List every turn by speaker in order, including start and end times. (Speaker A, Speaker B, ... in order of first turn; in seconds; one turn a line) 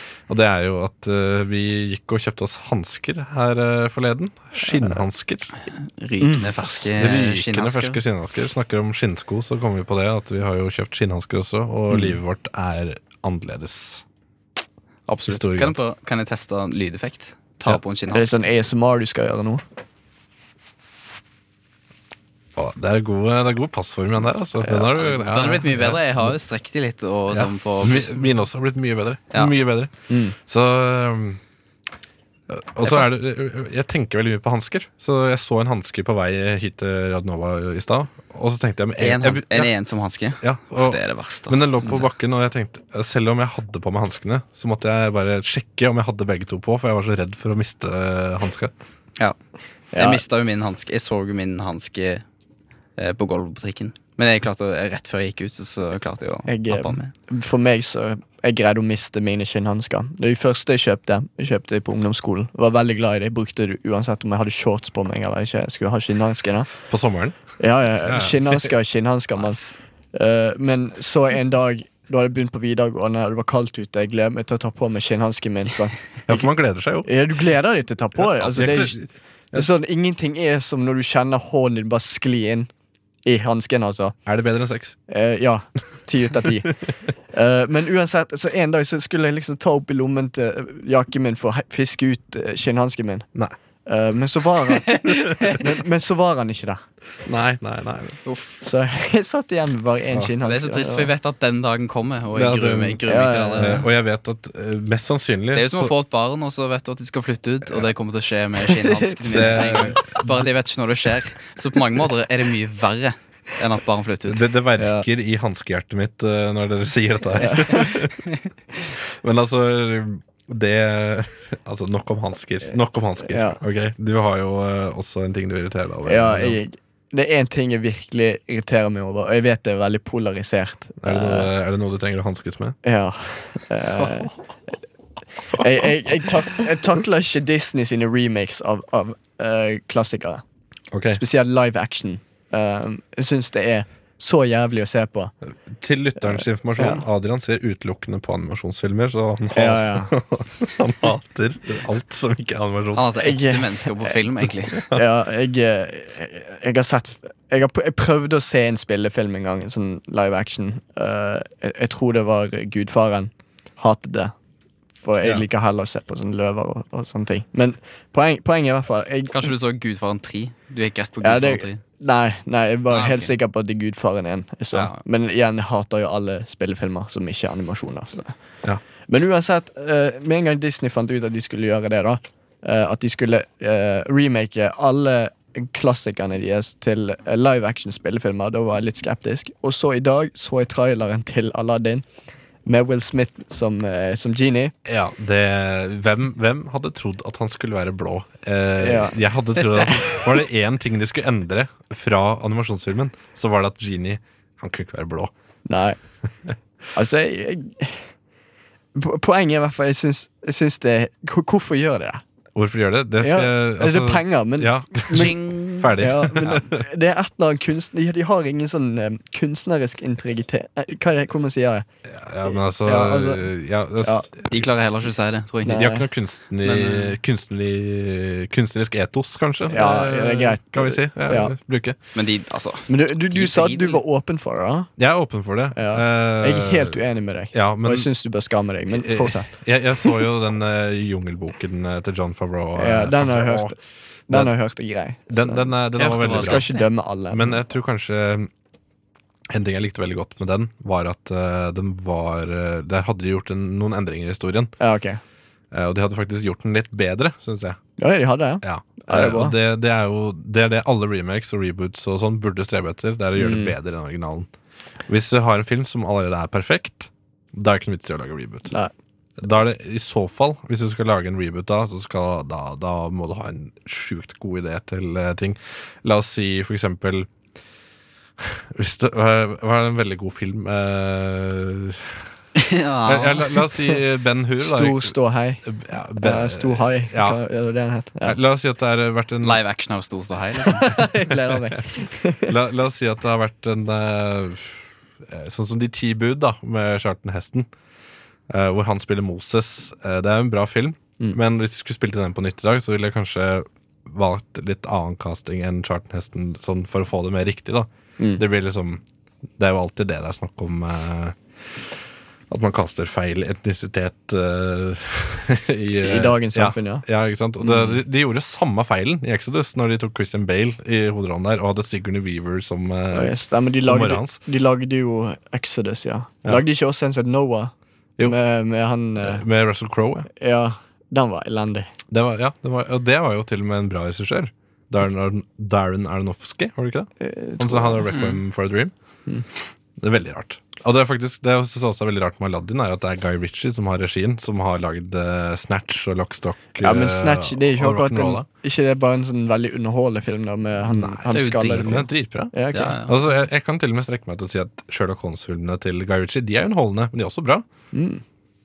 Speaker A: 0.3-5.5
Speaker B: 6.0-8.0
Speaker C: 6.2-6.9
Speaker A: 7.0-14.0
Speaker B: 15.1-18.4
Speaker A: 15.3-15.8
Speaker C: 18.1-19.6
Speaker A: 22.6-26.4
Speaker C: 24.6-24.9
Speaker B: 25.0-28.4
Speaker A: 27.3-29.9
Speaker C: 30.1-30.4
Speaker A: 30.5-31.4
Speaker A: 32.5-39.7
Speaker B: 32.8-33.1
Speaker B: 39.0-42.1
Speaker A: 40.4-48.7
Speaker C: 49.9-50.2
Speaker B: 50.0-52.2
Speaker B: 53.0-57.1
Speaker C: 56.5-66.7
Speaker A: 66.9-67.4
Speaker C: 67.6-69.6
Speaker A: 68.0-68.7
Speaker B: 69.4-69.8
Speaker C: 70.1-76.5
Speaker A: 76.3-77.1
Speaker C: 77.0-79.0
Speaker A: 78.2-79.7
Speaker C: 79.5-82.7
Speaker C: 83.2-84.2
Speaker A: 84.3-85.0
Speaker C: 85.1-86.7
Speaker C: 87.3-93.3
Speaker C: 93.9-95.0
Speaker B: 94.9-95.6
Speaker C: 95.5-96.8
Speaker A: 97.2-98.2
Speaker B: 98.2-98.6
Speaker C: 98.6-101.1
Speaker B: 100.4-103.9
Speaker A: 102.3-103.0
Speaker C: 103.1-103.8
Speaker A: 103.5-105.9
Speaker B: 105.5-114.4
Speaker A: 109.2-110.2
Speaker C: 109.3-109.9
Speaker A: 114.3-118.2
Speaker C: 114.8-115.0
Speaker C: 117.4-117.9
Speaker A: 118.9-126.6
Speaker C: 123.2-123.6
Speaker C: 126.1-131.5
Speaker A: 131.0-132.8
Speaker C: 132.8-134.3
Speaker C: 135.5-140.4
Speaker A: 140.9-141.2
Speaker C: 141.1-145.3
Speaker A: 145.7-153.1
Speaker C: 146.2-147.0
Speaker C: 149.5-150.1
Speaker B: 152.9-154.9
Speaker C: 153.2-154.1
Speaker C: 154.9-164.3
Speaker C: 165.0-169.5
Speaker B: 169.3-171.8
Speaker C: 171.2-178.3
Speaker B: 172.9-173.3
Speaker B: 174.7-175.0
Speaker C: 179.1-192.0
Speaker C: 192.7-194.7
Speaker A: 194.8-205.3
Speaker C: 198.8-199.2
Speaker C: 205.7-206.0
Speaker C: 206.9-208.1
Speaker C: 208.9-212.2
Speaker A: 212.6-216.8
Speaker C: 213.2-215.3
Speaker B: 215.1-216.6
Speaker C: 216.0-221.8
Speaker A: 222.1-224.6
Speaker C: 222.5-223.5
Speaker B: 224.5-225.8
Speaker C: 225.7-226.1
Speaker A: 225.7-232.0
Speaker B: 226.6-227.2
Speaker C: 229.7-231.5
Speaker B: 232.2-234.0
Speaker C: 232.9-234.9
Speaker A: 235.0-237.0
Speaker C: 235.7-239.5
Speaker A: 237.5-238.1
Speaker A: 238.9-243.8
Speaker C: 242.8-243.8
Speaker A: 244.3-244.5
Speaker C: 244.3-247.6
Speaker A: 245.3-246.8
Speaker B: 246.0-246.9
Speaker A: 247.3-248.5
Speaker A: 249.5-254.8
Speaker C: 254.8-255.2
Speaker A: 255.7-257.8
Speaker C: 258.0-259.6
Speaker A: 258.6-264.5
Speaker C: 263.4-263.7
Speaker A: 265.1-268.8
Speaker A: 269.4-277.3
Speaker A: 278.4-282.3
Speaker B: 282.6-283.6
Speaker A: 283.1-287.4
Speaker C: 284.6-285.6
Speaker C: 286.2-288.4
Speaker A: 288.2-289.6
Speaker B: 289.4-291.0
Speaker C: 290.8-292.5
Speaker A: 292.5-297.7
Speaker A: 298.5-309.0
Speaker A: 309.6-312.0
Speaker A: 312.5-324.4
Speaker C: 316.0-317.0
Speaker C: 317.6-317.9
Speaker C: 323.1-327.7
Speaker C: 328.2-329.4
Speaker A: 329.2-330.3
Speaker C: 330.4-331.9
Speaker A: 332.1-338.9
Speaker C: 337.2-338.1
Speaker B: 338.1-338.4
Speaker A: 340.0-348.5
Speaker C: 346.8-353.0
Speaker A: 350.9-357.7
Speaker B: 351.3-352.1
Speaker B: 352.7-353.1
Speaker C: 357.9-358.2